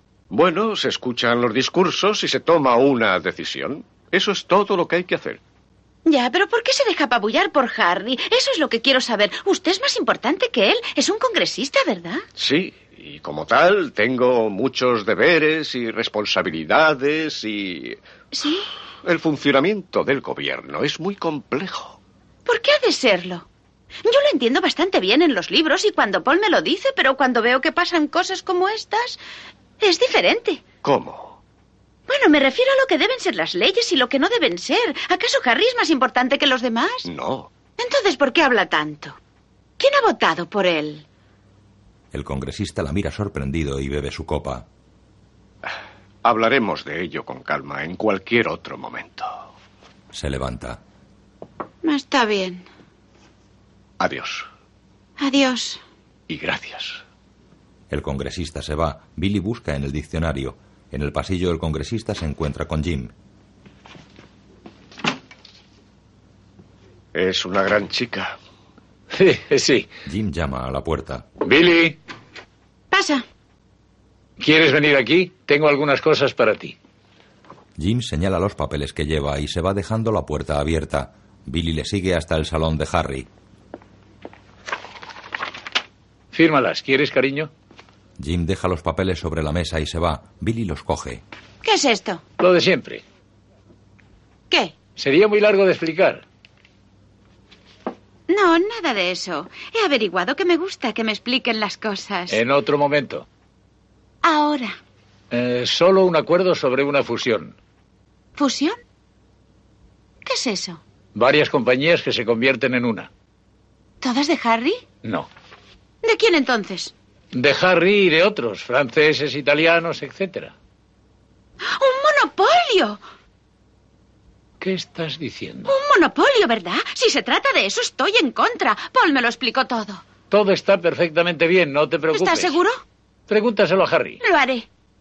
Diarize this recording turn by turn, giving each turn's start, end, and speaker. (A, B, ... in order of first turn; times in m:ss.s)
0:00.3-0:05.4 A
0:06.1-0:12.2 B
0:12.4-0:18.0 A
0:18.3-0:18.7 B
0:19.0-0:22.0 A
0:22.5-0:23.5 B
0:24.0-0:29.2 B
0:29.8-0:30.7 B
0:30.8-0:31.4 A
0:32.1-0:37.1 B
0:37.0-0:37.5 A
0:37.8-0:39.2 B
0:39.8-0:41.0 B
0:42.1-0:44.7 C
0:46.2-0:49.5 A
0:50.1-0:50.8 C
0:51.8-0:52.7 B
0:54.0-0:54.5 A
0:55.2-0:55.8 B
0:56.3-0:57.0 A
0:57.9-1:03.1 C
1:07.1-1:08.4 A
1:09.1-1:09.9 D
1:10.1-1:11.3 C
1:11.4-1:12.0 D
1:12.9-1:13.2 B
1:14.4-1:16.8 D
1:17.8-1:23.3 C
1:26.3-1:27.5 D
1:28.2-1:31.2 C
1:31.6-1:32.2 B
1:32.4-1:33.0 D
1:35.0-1:36.2 D
1:38.3-1:42.4 B
1:42.3-1:43.3 D
1:44.2-1:44.8 B
1:45.3-1:47.6 D
1:48.4-1:48.8 B
1:50.2-1:50.8 B
1:51.2-1:53.1 D
1:54.0-1:54.8 B
1:55.0-1:55.3 D
1:56.0-1:56.9 B
1:57.3-2:00.6 D
2:01.6-2:03.0 B
2:04.6-2:05.7 D
2:05.7-2:10.0 B
2:10.3-2:12.6 D
2:12.1-2:12.8 B
2:13.3-2:14.2 D
2:14.2-2:14.7 B